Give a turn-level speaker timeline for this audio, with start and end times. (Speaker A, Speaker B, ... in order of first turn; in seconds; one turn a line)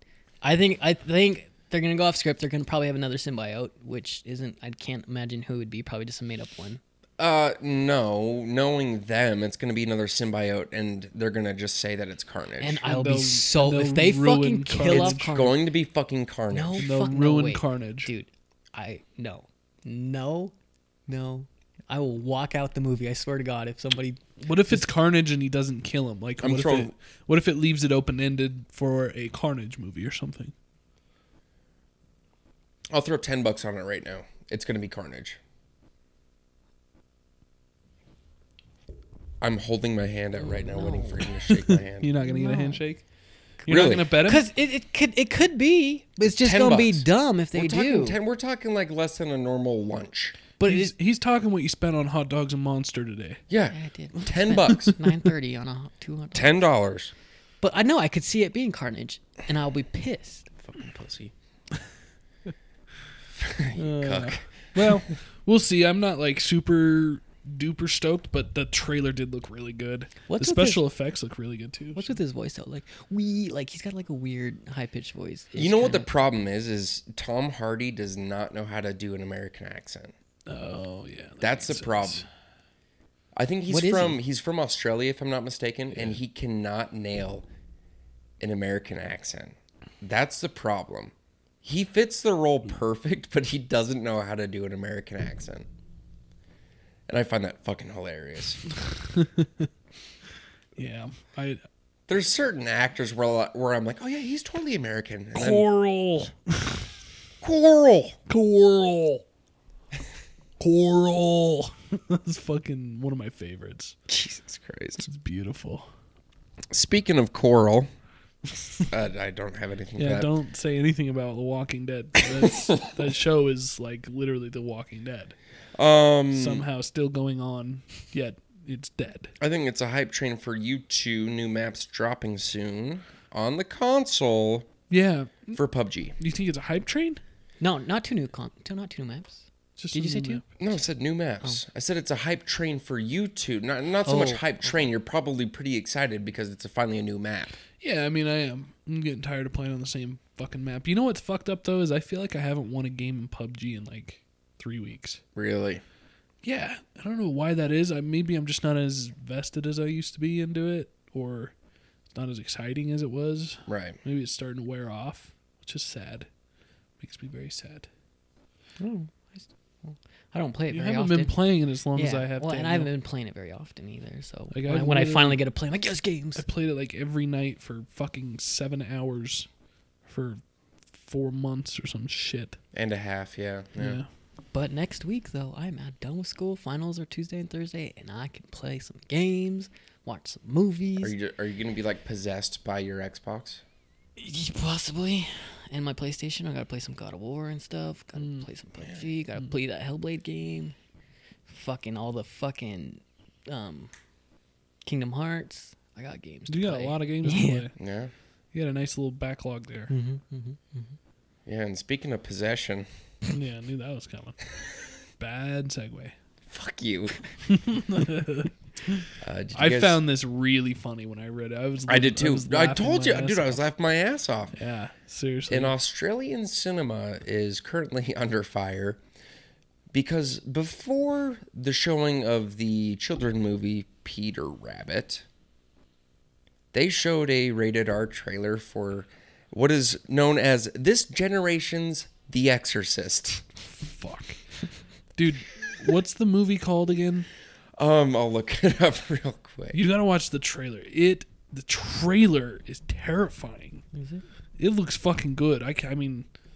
Speaker A: 0.4-6.8
Speaker B: 7.2-12.8
Speaker A: 12.6-15.6
Speaker C: 12.8-15.3
Speaker B: 14.9-16.9
Speaker A: 16.5-20.5
Speaker C: 16.8-18.1
Speaker A: 21.1-24.9
Speaker C: 24.4-30.5
Speaker B: 26.4-26.9
Speaker B: 32.9-35.4
Speaker B: 39.4-42.1
Speaker A: 40.4-42.8
Speaker C: 42.0-43.0
Speaker C: 43.6-44.5
Speaker B: 43.7-44.2
Speaker A: 44.2-48.2
Speaker B: 46.3-50.4
Speaker A: 50.6-50.9
Speaker C: 50.6-53.4
Speaker B: 53.5-55.0
Speaker A: 53.7-56.7
Speaker B: 56.3-57.1
Speaker A: 57.6-60.5
Speaker B: 60.6-61.3
Speaker B: 63.4-65.0
Speaker A: 63.8-64.3
Speaker C: 63.8-72.2
Speaker A: 70.3-70.8
Speaker A: 71.9-76.1
Speaker B: 75.5-80.1
Speaker C: 80.5-82.2
Speaker B: 81.4-82.2
Speaker B: 83.4-87.5
Speaker A: 83.7-84.2
Speaker B: 88.4-91.1
Speaker B: 91.6-95.7
Speaker B: 97.1-98.6
Speaker C: 99.1-99.7
Speaker C: 100.8-101.6
Speaker B: 102.1-105.7
Speaker C: 105.3-106.8
Speaker B: 107.4-108.2
Speaker C: 108.3-109.2
Speaker C: 110.6-114.0
Speaker B: 114.1-115.0
Speaker C: 115.0-115.9
Speaker B: 116.7-117.9
Speaker C: 118.6-118.9
Speaker B: 118.9-120.3
Speaker C: 120.0-125.4
Speaker B: 125.8-126.7
Speaker C: 126.3-129.3
Speaker B: 129.4-134.7
Speaker C: 134.9-135.6
Speaker B: 135.6-136.1
Speaker C: 136.2-137.2
Speaker A: 137.6-140.7
Speaker C: 139.8-140.4
Speaker B: 140.6-147.6
Speaker A: 144.1-144.7
Speaker C: 147.8-155.2
Speaker B: 155.3-155.8
Speaker C: 156.4-161.5
Speaker C: 162.1-166.3
Speaker B: 163.7-164.0
Speaker C: 167.0-167.9
Speaker A: 168.8-176.5
Speaker C: 170.7-172.9
Speaker C: 174.5-175.4
Speaker C: 176.4-179.5
Speaker C: 180.1-180.4
Speaker C: 180.9-182.6
Speaker B: 182.7-184.0
Speaker C: 183.8-184.1
Speaker A: 184.5-191.2
Speaker B: 191.0-193.6
Speaker A: 194.2-200.8
Speaker C: 198.2-198.5
Speaker B: 198.8-199.1
Speaker A: 201.5-203.9
Speaker A: 204.8-207.7
Speaker C: 206.5-207.7
Speaker B: 207.8-208.1
Speaker C: 208.5-209.9
Speaker A: 209.9-211.0
Speaker B: 211.5-212.9
Speaker C: 213.3-214.4
Speaker C: 215.2-216.2
Speaker B: 216.5-217.2
Speaker C: 217.5-223.6
Speaker B: 219.2-220.0
Speaker B: 221.9-224.5
Speaker C: 224.5-225.8
Speaker B: 225.5-229.0
Speaker B: 229.9-235.2
Speaker B: 236.7-243.4
Speaker C: 243.7-244.4
Speaker C: 245.2-247.3
Speaker B: 247.8-249.8
Speaker C: 249.7-253.8
Speaker A: 253.9-254.2
Speaker C: 254.6-256.3